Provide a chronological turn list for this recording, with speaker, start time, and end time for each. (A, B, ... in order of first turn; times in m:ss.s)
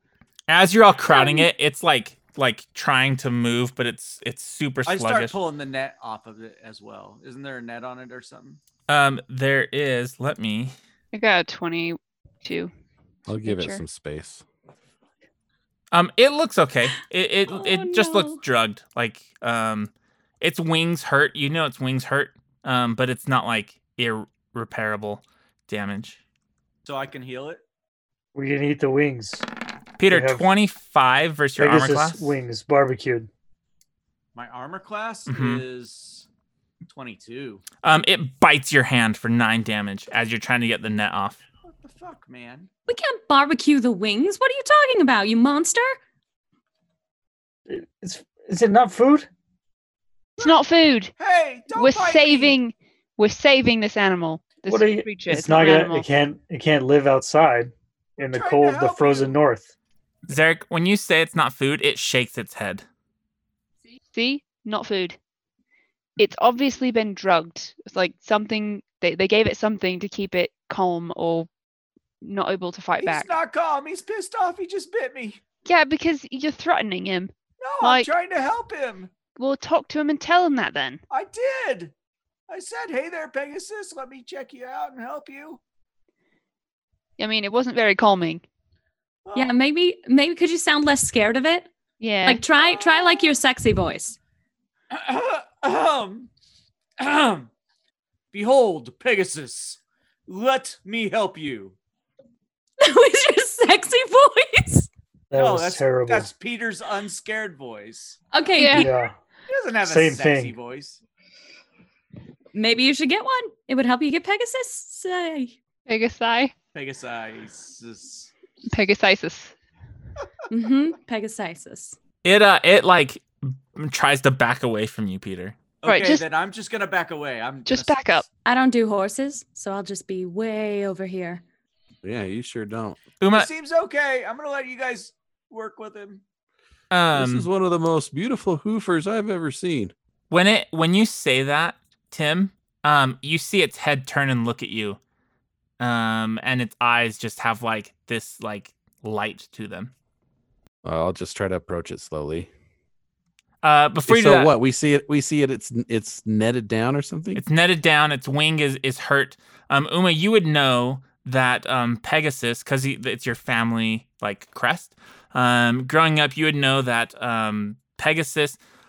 0:00.5-0:05.4 A
0:01.1-0:01.4 B
0:04.9-0:08.6 C
0:08.9-0:10.8 A
0:11.1-0:12.7 B
0:13.3-0:14.4 D
0:13.4-0:13.8 B
0:15.9-0:26.2 A
0:17.5-0:18.4 E
0:26.8-0:27.6 C
0:28.4-0:29.5 F
0:30.0-0:32.4 A
0:30.1-0:30.4 F
0:31.6-0:33.3 F
0:34.4-0:36.3 C
0:35.3-0:35.6 A
0:36.9-0:37.6 C
0:37.8-0:41.4 A
0:41.6-0:42.7 C
0:42.9-0:46.0 E
0:47.7-0:49.3 F
0:50.4-0:51.1 B
0:51.2-0:52.6 C
0:51.7-0:56.1 B
0:54.7-0:59.7 F
0:58.3-0:59.4 C
1:00.3-1:02.8 A
1:04.1-1:05.2 B
1:06.2-1:11.5 B
1:12.2-1:13.4 B
1:13.0-1:15.4 C
1:15.7-1:18.1 B
1:17.6-1:19.1 C
1:19.4-1:21.0 B
1:21.1-1:21.9 C
1:22.5-1:25.6 C
1:27.2-1:28.4 B
1:29.2-1:29.6 C
1:29.3-1:31.7 E
1:32.0-1:32.4 B
1:32.2-1:34.2 E
1:32.5-1:33.4 C
1:34.9-1:36.3 C
1:37.0-1:37.5 C
1:38.3-1:41.8 C
1:42.8-1:44.9 E
1:45.3-1:46.3 F
1:45.4-1:48.2 C
1:48.3-1:48.9 E
1:48.6-1:48.9 B
1:48.8-1:49.1 F
1:49.5-1:51.0 C
1:49.8-1:50.6 F
1:52.5-1:55.6 E
1:55.9-1:56.5 B
1:56.7-1:58.3 C
1:58.7-1:59.6 B
2:00.5-2:02.0 E
2:02.2-2:05.6 A
2:05.8-2:08.2 C
2:05.8-2:06.3 B
2:07.7-2:08.2 B
2:08.4-2:11.4 E
2:12.0-2:13.0 D
2:13.2-2:13.5 A
2:13.3-2:16.2 C
2:16.9-2:17.5 A
2:17.1-2:19.9 D
2:20.3-2:25.0 A
2:25.8-2:29.9 A
2:30.8-2:32.5 D
2:33.6-2:34.5 A
2:34.1-2:37.4 D
2:37.4-2:48.6 A